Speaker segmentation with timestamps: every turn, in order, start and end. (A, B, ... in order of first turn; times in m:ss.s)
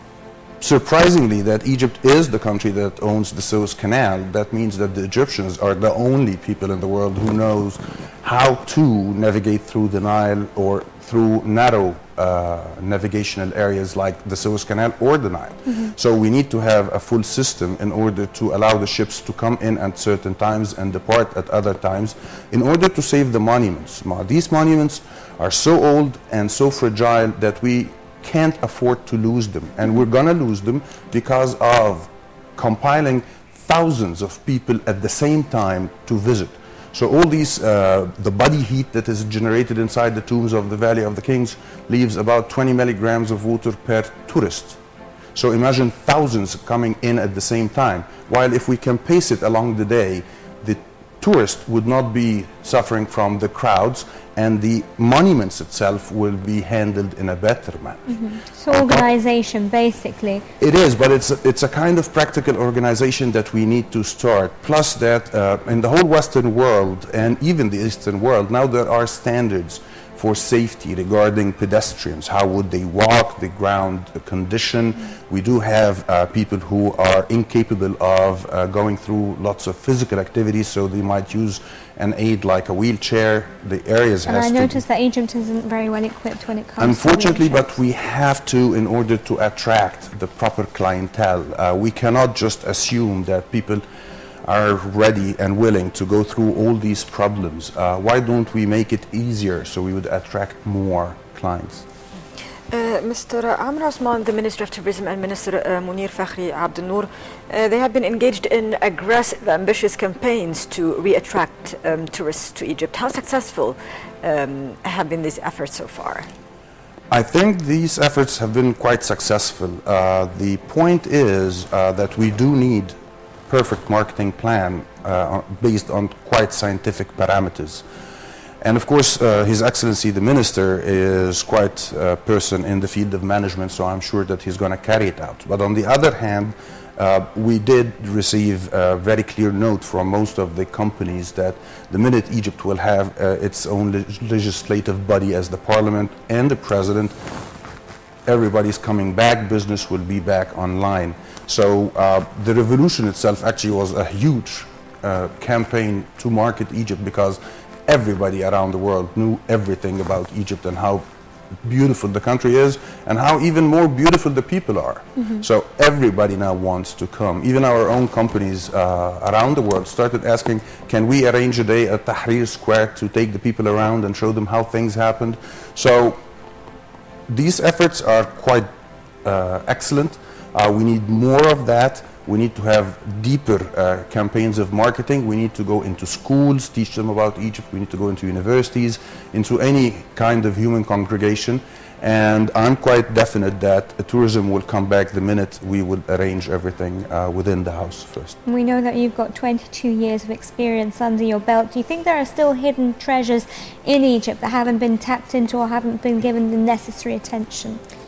0:00.6-0:44.8 A
0:15.7-0:16.0 B
0:45.4-0:58.0 A
0:58.1-1:00.5 B
0:58.7-0:59.1 A
1:00.6-1:24.8 A
1:24.3-1:27.7 B
1:26.8-1:33.8 A
1:34.4-1:41.8 A
1:42.7-1:56.3 C
1:57.1-2:03.0 A
2:03.5-2:07.8 A
2:08.6-2:27.2 A
2:28.3-2:41.1 A
2:41.6-2:56.2 A
2:45.2-2:45.4 B
2:57.3-2:58.7 A
2:59.2-3:18.4 A
3:18.4-3:27.8 B